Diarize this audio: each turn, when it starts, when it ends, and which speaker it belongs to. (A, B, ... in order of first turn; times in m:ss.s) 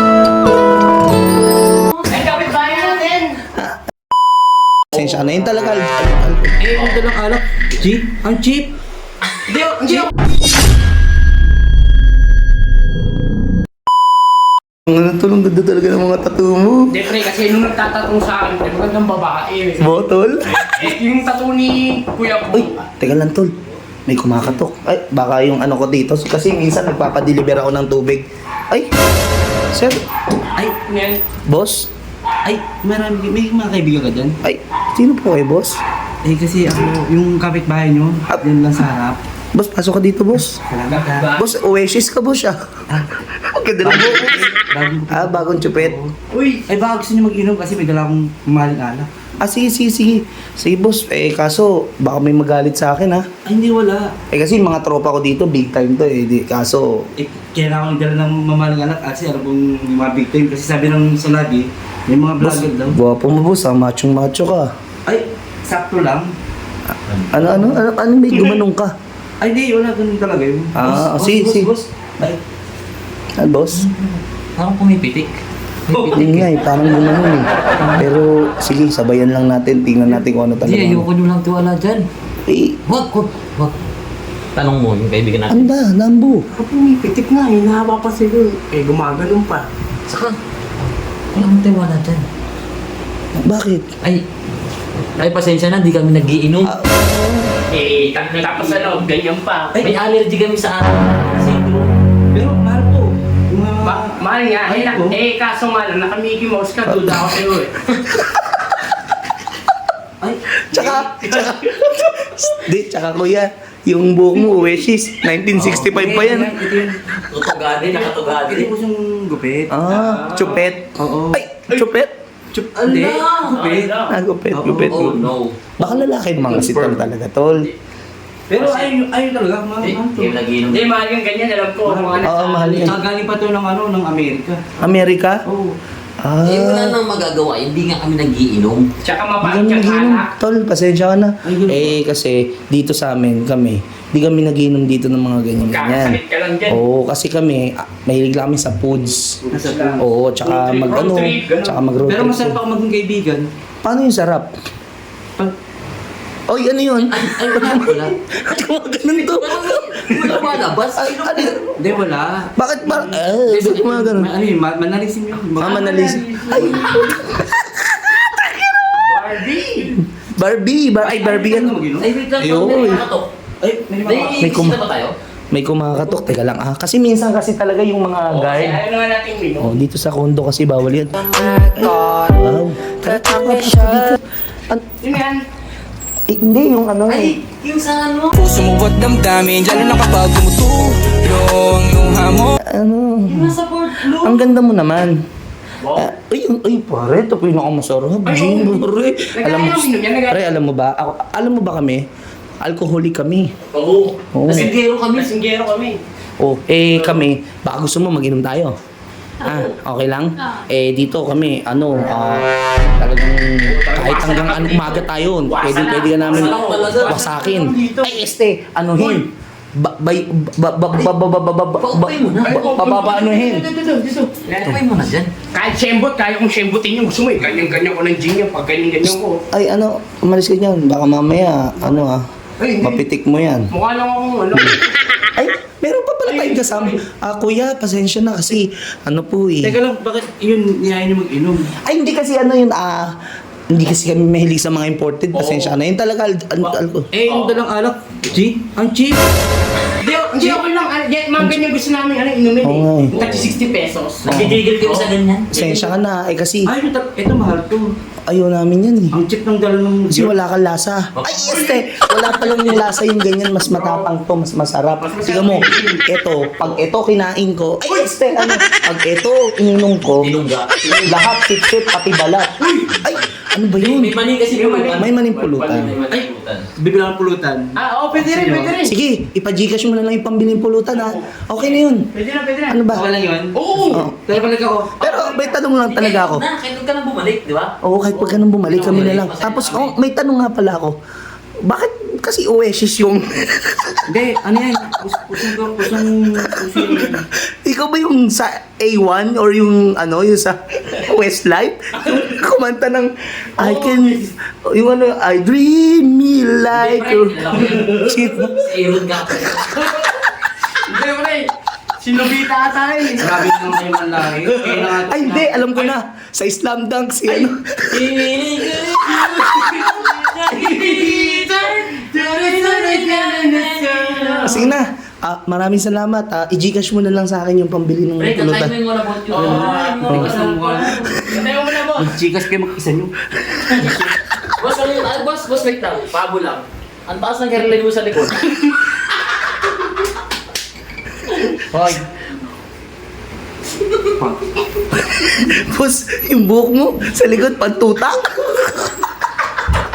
0:02.0-0:03.4 A
0:04.9-0:06.6 B
0:04.9-0:05.4 C
0:06.6-0:08.7 C
0:09.4-0:10.1 A
0:14.8-0:17.0 B
0:16.9-0:19.9 A
0:19.8-0:20.7 B
0:20.7-0:22.9 A
0:22.5-0:23.5 B
0:24.0-0:28.9 B
0:29.7-0:30.0 B
0:30.9-0:31.2 A
0:31.5-0:31.9 B
0:32.4-0:34.4 C
0:34.4-0:35.8 B
0:36.2-0:39.2 C
0:39.5-0:40.5 B
0:40.4-0:41.3 C
0:41.0-0:41.5 D
0:41.4-0:42.6 B
0:42.9-0:43.2 C
0:43.4-0:44.6 B
0:43.8-0:46.2 C
0:45.1-0:46.0 B
0:46.3-0:46.6 A
0:46.7-0:49.1 C
0:49.4-0:53.2 B
0:53.4-0:54.1 C
0:54.3-0:57.0 B
0:57.2-1:03.0 C
1:02.4-1:04.7 B
1:05.0-1:06.3 C
1:07.3-1:08.9 B
1:09.4-1:11.0 C
1:10.7-1:11.7 B
1:10.8-1:11.8 D
1:13.4-1:13.9 B
1:13.7-1:15.3 D
1:15.9-1:16.5 D
1:15.9-1:16.3 C
1:16.1-1:21.1 B
1:20.6-1:22.0 D
1:22.5-1:22.8 B
1:22.8-1:23.8 D
1:24.5-1:25.7 D
1:25.5-1:26.4 B
1:26.5-1:29.7 A
1:30.1-1:30.4 D
1:31.3-1:32.2 D
1:33.4-1:33.9 B
1:35.2-1:36.7 D
1:36.6-1:37.5 B
1:37.7-1:39.8 A
1:38.0-1:39.0 D
1:39.8-1:42.0 D
1:42.3-1:45.2 C
1:43.8-1:47.8 A
1:46.8-1:47.3 B
1:50.2-1:51.4 C
1:50.7-1:56.7 B
1:55.5-1:56.0 D
1:55.7-1:57.0 C
1:57.3-1:58.7 D
1:57.8-2:01.4 C
1:59.7-2:02.1 B
1:59.9-2:00.6 A
2:02.5-2:05.2 C
2:02.8-2:03.7 D
2:03.5-2:04.2 A
2:04.0-2:05.2 B
2:04.9-2:05.6 D
2:05.8-2:07.7 B
2:06.5-2:07.0 D
2:08.5-2:10.4 C
2:08.6-2:08.9 A
2:09.8-2:10.9 D
2:10.7-2:12.9 A
2:11.8-2:14.8 C
2:12.2-2:13.0 B
2:14.8-2:15.4 B
2:15.4-2:15.8 C
2:16.2-2:17.0 B
2:16.4-2:18.9 D
2:19.0-2:20.3 A
2:19.4-2:29.4 B
2:21.4-2:22.0 C
2:25.6-2:26.8 A
2:29.4-2:30.1 C
2:29.5-2:31.9 A
2:30.0-2:32.6 B
2:32.0-2:33.5 C
2:33.8-2:34.5 B
2:36.5-2:41.8 B
2:37.0-2:38.1 D
2:39.2-2:41.6 D
2:41.8-2:46.9 C
2:42.6-2:44.3 B
2:45.6-2:48.8 B
2:45.6-2:47.1 A
2:49.0-2:49.9 A
2:49.8-2:51.8 B
2:51.0-2:52.1 C
2:52.0-2:53.3 D
2:52.4-2:53.0 B
2:53.6-2:54.5 C
2:54.0-2:55.1 D
2:54.3-2:54.8 B
2:55.5-2:58.8 B
2:58.3-2:59.7 A
2:59.6-3:05.0 B
3:01.2-3:04.2 D
3:05.0-3:05.4 A
3:06.3-3:07.4 B
3:07.1-3:08.5 D
3:08.3-3:12.6 E
3:12.6-3:13.6 B
3:13.3-3:14.6 D
3:14.1-3:15.2 B
3:15.9-3:22.0 B
3:18.2-3:20.4 A
3:22.6-3:23.5 B
3:23.7-3:26.0 A
3:24.3-3:24.7 B
3:24.4-3:25.3 D
3:26.4-3:28.7 B
3:29.4-3:43.7 B
3:33.7-3:38.3 A
3:36.2-3:37.3 D
3:39.0-3:39.2 A
3:41.8-3:42.7 D
3:42.4-3:44.8 A
3:44.5-3:45.3 D
3:45.5-3:49.4 A
3:49.0-3:52.2 B
3:52.6-3:53.0 A
3:52.8-3:53.7 B
3:53.7-3:54.9 A
3:55.3-3:59.8 B
3:56.2-3:57.0 A
3:59.6-4:01.8 C
4:01.8-4:03.2 B
4:03.7-4:07.1 B
4:05.3-4:05.8 D
4:07.1-4:09.2 C
4:10.0-4:14.3 A
4:10.3-4:10.6 C
4:12.6-4:13.3 B
4:14.2-4:14.6 B
4:14.3-4:15.5 D
4:14.8-4:15.9 A
4:15.5-4:16.7 B
4:16.6-4:17.9 C
4:18.3-4:19.2 B
4:19.1-4:20.3 C
4:20.1-4:30.3 B
4:21.1-4:21.6 D
4:21.7-4:22.8 A
4:23.6-4:24.1 A
4:25.0-4:26.0 A
4:27.8-4:28.5 A
4:30.1-4:31.3 D
4:31.0-4:34.2 B
4:32.6-4:33.0 A
4:33.8-4:35.1 D
4:34.5-4:36.2 A
4:34.8-4:35.9 B
4:35.7-4:36.7 D
4:36.1-4:38.7 C
4:37.8-4:38.9 A
4:38.8-4:42.1 B
4:40.9-4:42.8 A
4:42.7-4:43.0 B
4:42.9-4:45.0 C
4:43.5-4:44.0 A
4:43.9-4:44.1 B
4:45.0-4:46.5 B
4:45.0-4:45.5 A
4:45.9-4:49.9 D
4:47.8-4:51.0 B
4:48.6-4:49.2 C
4:51.6-4:54.0 B
4:54.1-4:57.2 C
4:57.4-5:08.7 B
5:03.6-5:04.1 A
5:06.7-5:09.8 D
5:10.7-5:13.5 A
5:13.2-5:15.8 C
5:14.5-5:14.9 A
5:15.0-5:18.7 B
5:17.2-5:24.7 D
5:20.6-5:24.6 A
5:22.8-5:23.1 C
5:24.1-5:24.4 C
5:24.4-5:28.7 B
5:28.2-5:31.3 D
5:29.3-5:31.2 C
5:29.3-5:30.0 A
5:30.1-5:30.3 B
5:31.1-5:32.1 A
5:31.9-5:33.2 C
5:33.7-5:38.5 D
5:41.7-5:42.0 A
5:45.1-5:49.0 B